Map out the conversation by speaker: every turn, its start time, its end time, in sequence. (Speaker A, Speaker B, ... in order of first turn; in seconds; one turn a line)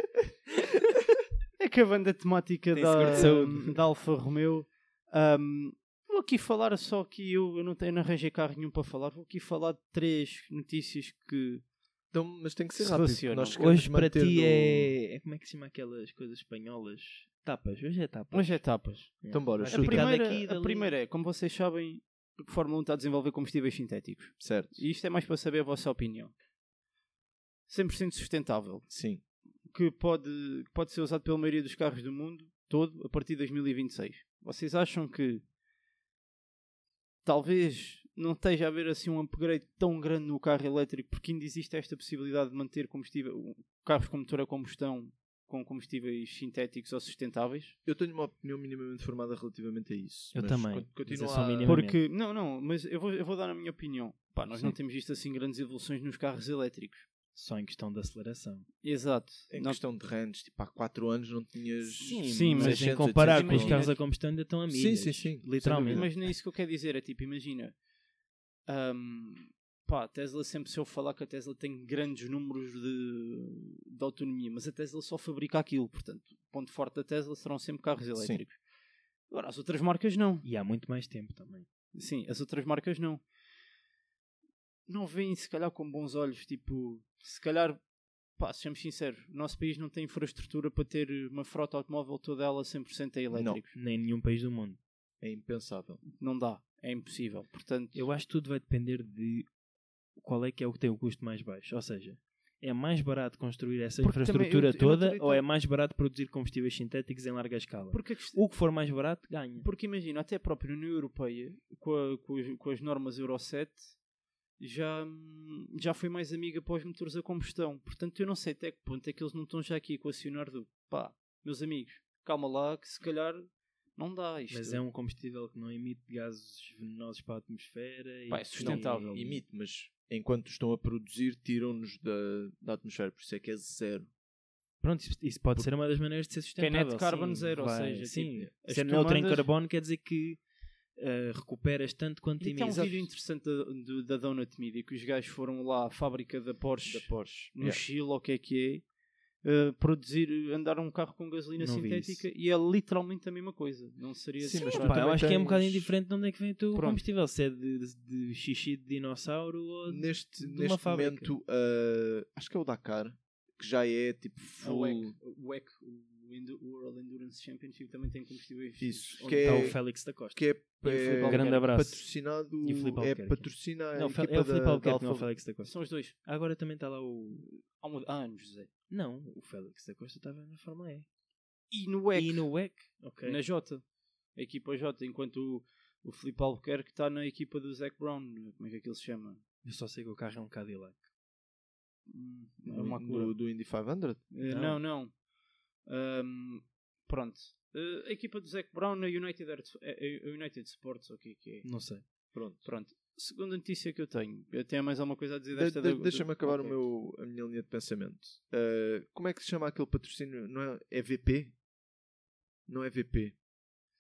Speaker A: 1.6-11.6
Speaker B: 2.7-3.8
Speaker C: 3.0-3.4
Speaker C: 12.1-14.9
Speaker A: 12.8-13.6
Speaker B: 13.6-18.6
Speaker A: 18.3-19.2
Speaker B: 19.2-20.9
Speaker C: 19.3-20.1
Speaker A: 19.7-26.3
Speaker C: 24.4-24.8
Speaker A: 27.7-28.9
Speaker C: 28.9-29.2
Speaker A: 29.7-35.4
Speaker A: 37.2-47.8
Speaker C: 47.9-51.8
Speaker B: 50.3-52.0
Speaker A: 51.6-57.1
Speaker B: 57.3-58.7
Speaker A: 58.8-59.8
Speaker C: 59.5-63.9
Speaker B: 61.8-66.1
Speaker A: 62.1-64.0
Speaker C: 64.7-66.1
Speaker A: 65.6-67.8
Speaker A: 68.7-78.6
Speaker A: 79.3-80.5
Speaker B: 80.4-81.7
Speaker A: 81.9-83.2
Speaker A: 84.9-87.8
Speaker A: 88.4-93.8
Speaker C: 93.3-93.6
Speaker B: 93.7-94.8
Speaker C: 95.2-96.0
Speaker A: 96.0-98.1
Speaker B: 97.9-99.5
Speaker B: 100.2-109.7
Speaker A: 104.0-105.4
Speaker A: 107.9-108.4
Speaker A: 109.6-114.0
Speaker A: 114.6-124.8
Speaker B: 124.5-129.4
Speaker A: 128.3-129.3
Speaker C: 128.6-134.1
Speaker B: 134.8-140.4
Speaker A: 136.6-139.5
Speaker B: 141.0-143.0
Speaker A: 142.4-148.8
Speaker C: 146.8-147.8
Speaker A: 149.4-155.1
Speaker B: 151.6-152.3
Speaker C: 154.4-155.9
Speaker B: 154.6-161.3
Speaker A: 156.7-157.0
Speaker C: 159.9-165.2
Speaker A: 164.6-169.8
Speaker C: 168.8-175.3
Speaker B: 169.4-170.5
Speaker A: 170.8-171.7
Speaker B: 171.2-172.1
Speaker B: 172.6-177.5
Speaker A: 175.6-176.2
Speaker A: 177.4-178.7
Speaker B: 178.9-181.1
Speaker A: 181.7-182.5
Speaker B: 182.2-183.4
Speaker A: 183.2-183.8
Speaker A: 184.3-189.4
Speaker B: 189.6-191.0
Speaker A: 192.1-193.3
Speaker C: 192.7-194.3
Speaker A: 194.3-195.2
Speaker B: 194.5-194.8
Speaker A: 195.8-201.7
Speaker B: 201.6-202.0
Speaker C: 202.3-202.7
Speaker A: 202.6-206.8
Speaker C: 205.6-211.6
Speaker C: 212.7-213.4